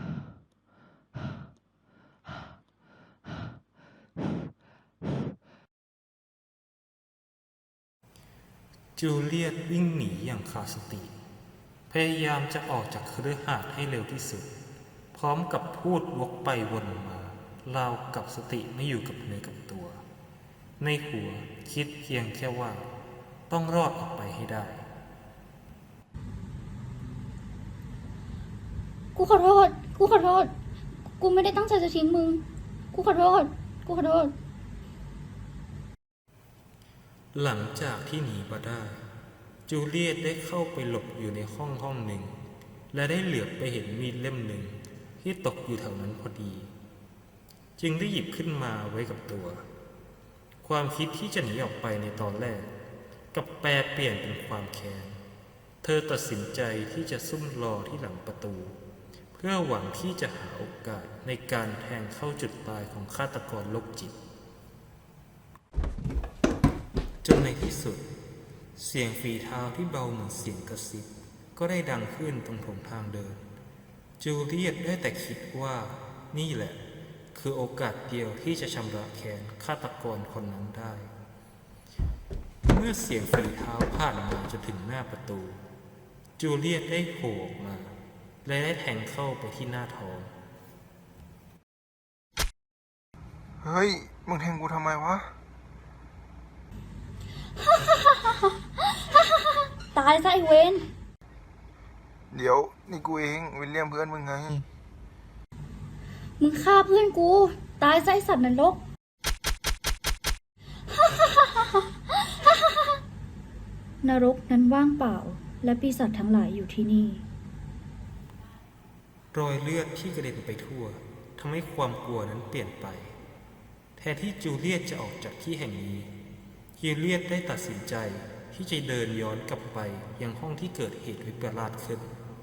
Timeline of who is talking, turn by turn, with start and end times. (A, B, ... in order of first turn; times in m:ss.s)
0:09.0-0:11.1 A
0:11.9-0:14.5 A
0:15.1-0:20.0 A
0:20.8-0:22.9 A
0:23.5-0:24.8 A
0:29.2-0:30.5 B
0:31.2-0:34.3 B
0:37.3-0:39.0 A
0:39.7-0:42.3 A
0:42.9-0:46.7 A
0:47.8-0:49.6 A
0:50.6-0:52.7 A
0:53.3-0:55.2 A
0:55.8-0:58.8 A
0:59.3-1:04.2 A
1:07.2-1:08.0 A
1:08.7-1:13.4 A
1:14.2-1:16.8 A
1:17.3-1:21.1 A
1:22.6-1:25.6 A
1:26.4-1:30.3 A
1:33.6-1:35.3 C
1:37.7-1:40.9 B
1:42.3-1:44.6 C
1:46.4-1:48.8 B
1:51.1-1:51.9 B
1:54.0-1:57.2 B
1:59.3-2:03.1 A
2:04.0-2:06.1 A
2:06.8-2:12.1 A